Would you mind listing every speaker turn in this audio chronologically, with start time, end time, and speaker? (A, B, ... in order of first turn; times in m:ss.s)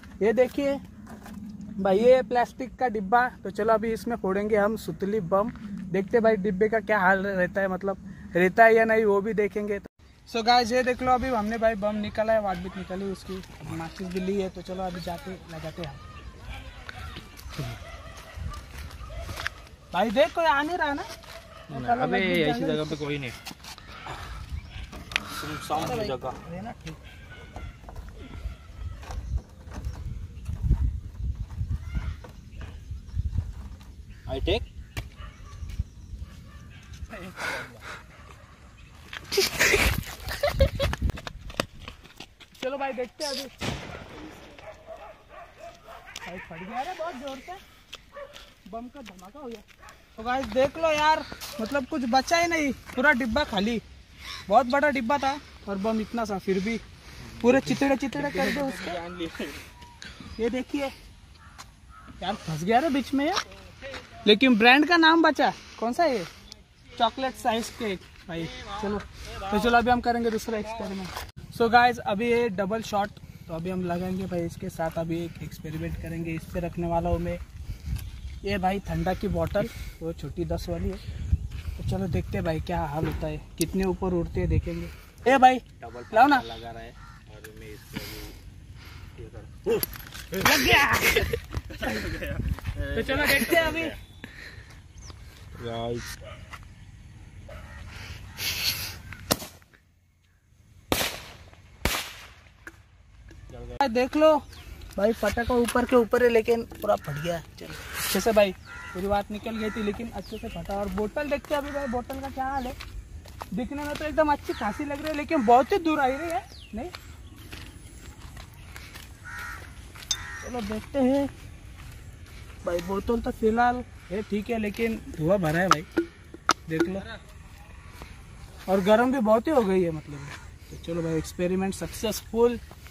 0:00.2-0:00.8 A
0:01.8-0:16.0 A
0:19.9-0:21.1 A
0:21.7-0:23.0 A
0:21.7-0:23.4 B
0:25.3-0:26.4 B
0:25.7-0:27.0 A
0:34.3-0:34.7 B
0:37.4-0:37.8 B
0:42.6-0:43.5 A
0:46.2-0:47.6 A
0:48.7-0:49.6 A
0:50.2-0:53.8 A
0:54.5-0:56.8 A
0:57.4-0:59.0 A
0:58.1-0:59.6 B
1:00.4-1:00.9 A
1:02.2-1:03.4 A
1:04.2-1:06.3 A
1:06.9-1:17.4 A
1:18.4-1:21.0 A
1:21.8-1:26.5 A
1:25.8-1:28.4 B
1:29.2-1:30.9 B
1:30.4-1:31.9 A
1:31.8-1:34.0 B
1:32.9-1:34.0 A
1:35.5-1:36.1 B
1:43.8-1:44.4 A
1:45.0-1:52.8 A
1:53.5-1:56.9 A
2:00.4-2:01.3 A
2:02.6-2:05.9 A
2:06.7-2:07.1 A
2:08.7-2:12.6 A